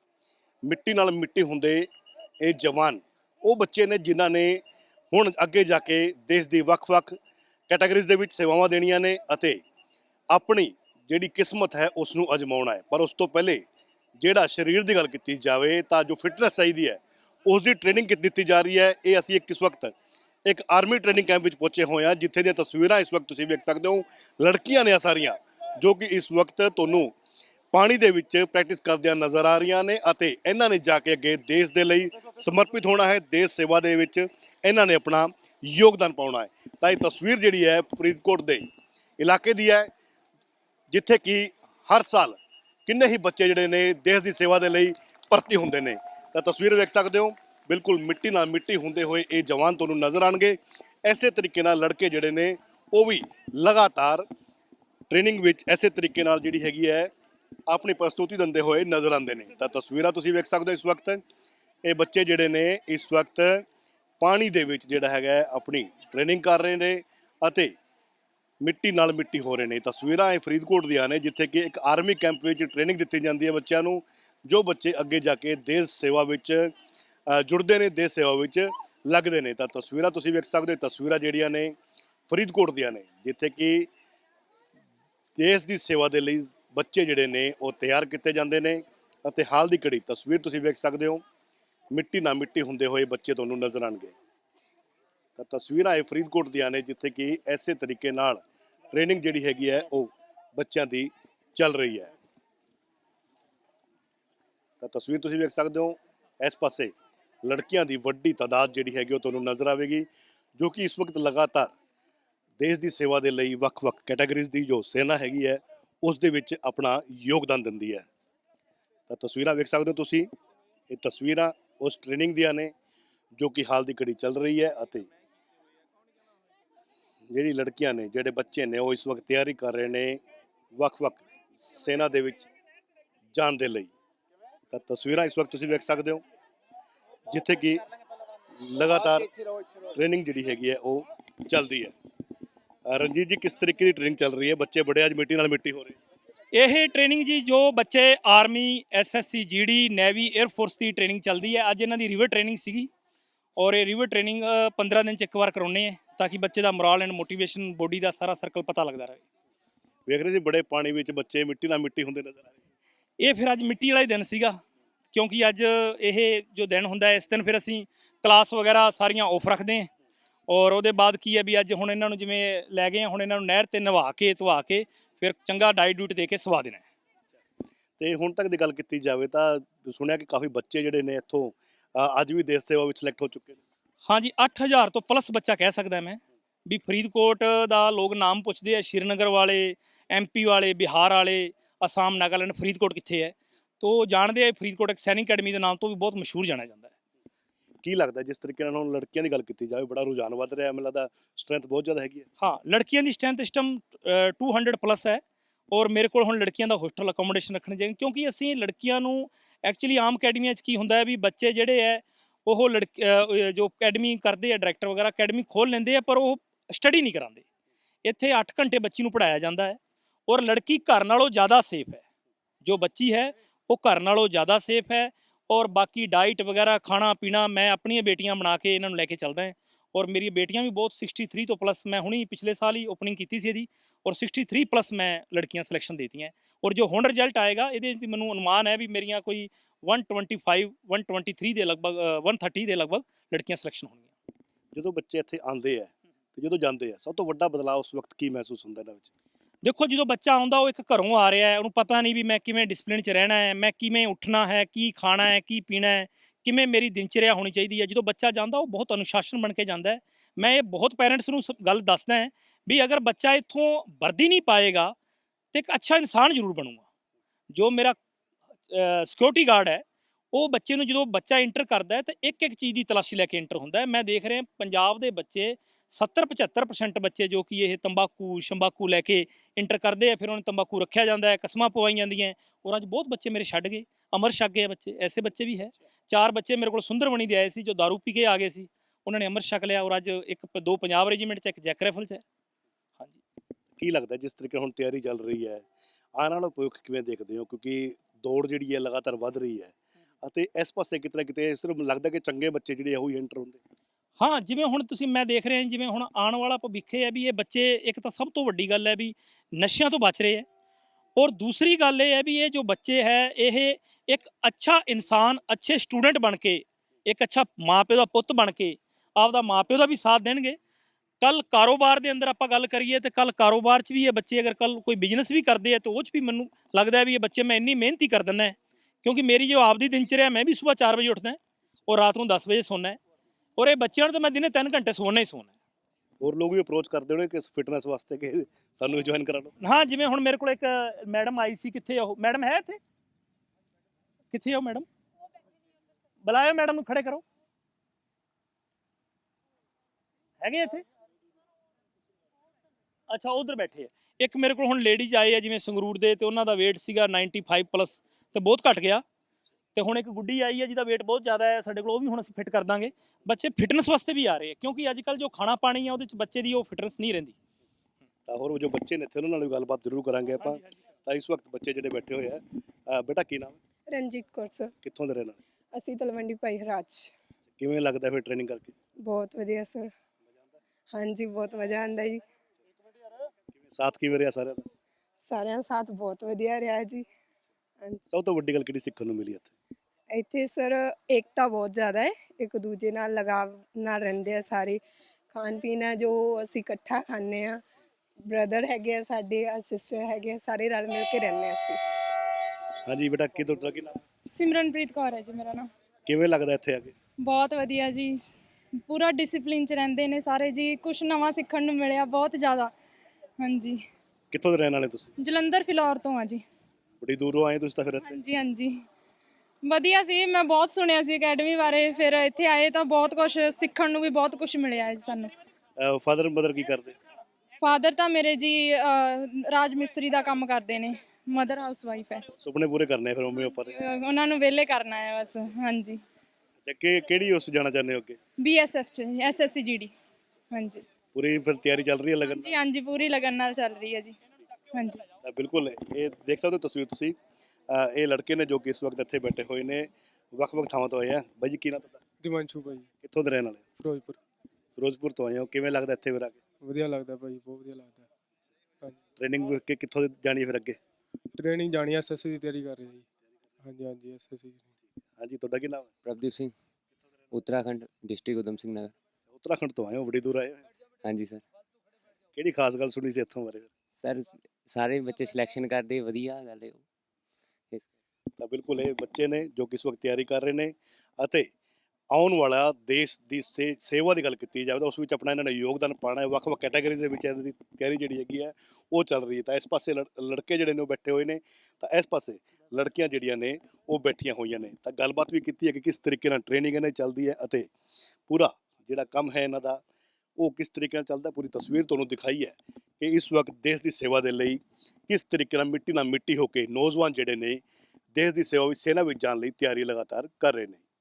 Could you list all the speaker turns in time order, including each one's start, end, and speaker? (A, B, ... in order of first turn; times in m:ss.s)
0:00.6-0:01.9 A
0:02.4-0:09.6 A
0:10.3-0:13.6 A
0:14.2-0:19.9 A
0:20.4-0:27.1 A
0:27.7-0:38.7 A
0:39.2-0:39.9 A
0:40.9-0:54.2 A
0:55.1-0:57.1 A
0:57.7-1:01.2 A
1:01.8-1:03.6 A
1:04.2-1:07.7 A
1:08.6-1:16.7 A
1:17.3-1:21.7 A
1:22.3-1:23.9 A
1:25.4-1:31.2 A
1:31.9-1:34.1 A
1:35.4-1:42.1 A
1:44.8-1:46.9 A
1:47.4-1:51.7 A
1:52.6-1:58.0 A
1:59.1-2:00.3 A
2:00.9-2:02.7 A
2:03.4-2:05.0 A
2:07.3-2:10.2 A
2:10.8-2:12.5 A
2:13.3-2:13.9 A
2:14.7-2:16.2 A
2:17.3-2:17.8 A
2:18.6-2:19.3 A
2:19.9-2:21.9 A
2:22.9-2:26.0 A
2:26.5-2:32.9 B
2:33.6-2:39.2 B
2:40.1-2:42.5 A
2:43.2-2:44.6 B
2:45.1-2:49.9 B
2:50.5-2:56.8 B
2:58.0-3:03.6 A
3:04.0-3:16.9 B
3:17.8-3:22.2 A
3:22.4-3:37.4 B
3:38.0-3:42.0 B
3:42.6-4:04.1 B
4:04.7-4:09.1 A
4:09.6-4:24.9 B
4:25.5-4:26.8 B
4:27.5-4:28.0 B
4:28.7-4:52.2 B
4:53.8-4:55.6 A
4:56.2-5:03.6 A
5:04.2-5:10.4 B
5:11.2-5:20.6 B
5:21.2-5:33.0 B
5:33.6-5:35.5 B
5:36.2-5:39.5 A
5:39.6-5:42.8 B
5:44.3-5:44.8 B
5:46.2-5:47.2 B
5:50.4-5:50.8 B
5:53.1-5:59.0 B
5:59.7-6:07.3 B
6:08.3-6:13.6 A
6:13.9-6:14.7 C
6:14.8-6:15.4 A
6:15.7-6:17.1 C
6:17.6-6:18.7 A
6:19.0-6:19.9 C
6:20.9-6:22.2 C
6:23.7-6:24.6 A
6:25.2-6:27.0 C
6:28.1-6:29.5 A
6:30.1-6:34.8 C
6:35.3-6:37.6 C
6:38.3-6:41.8 C
6:42.9-6:43.9 A
6:44.3-6:45.7 D
6:46.0-6:46.9 A
6:47.2-6:48.1 D
6:48.9-6:52.7 D
6:53.4-6:53.7 D
6:54.3-6:55.1 A
6:55.2-6:56.4 D
6:57.0-6:58.2 A
6:58.1-6:58.7 D
6:59.6-7:05.3 D
7:05.8-7:07.0 A
7:07.6-7:12.2 D
7:12.4-7:13.7 A
7:13.8-7:16.0 D
7:16.6-7:18.2 A
7:18.4-7:19.9 D
7:20.5-7:20.8 D
7:21.1-7:22.5 A
7:22.3-7:24.1 D
7:25.2-7:27.2 A
7:27.7-7:32.0 A
7:32.2-7:32.9 E
7:33.0-7:33.6 A
7:33.8-7:34.2 E
7:34.8-7:36.4 A
7:36.6-7:38.1 E
7:39.2-7:40.8 A
7:41.4-7:43.0 E
7:43.6-7:44.7 E
7:45.2-7:45.9 A
7:46.0-7:46.5 F
7:47.3-7:48.9 F
7:49.3-7:50.6 A
7:51.0-7:51.4 F
7:52.3-7:53.7 A
7:53.9-7:56.8 F
7:58.4-8:01.5 A
8:02.1-8:17.7 A
8:18.3-8:19.8 A
8:20.4-8:27.6 A
8:28.1-8:30.8 A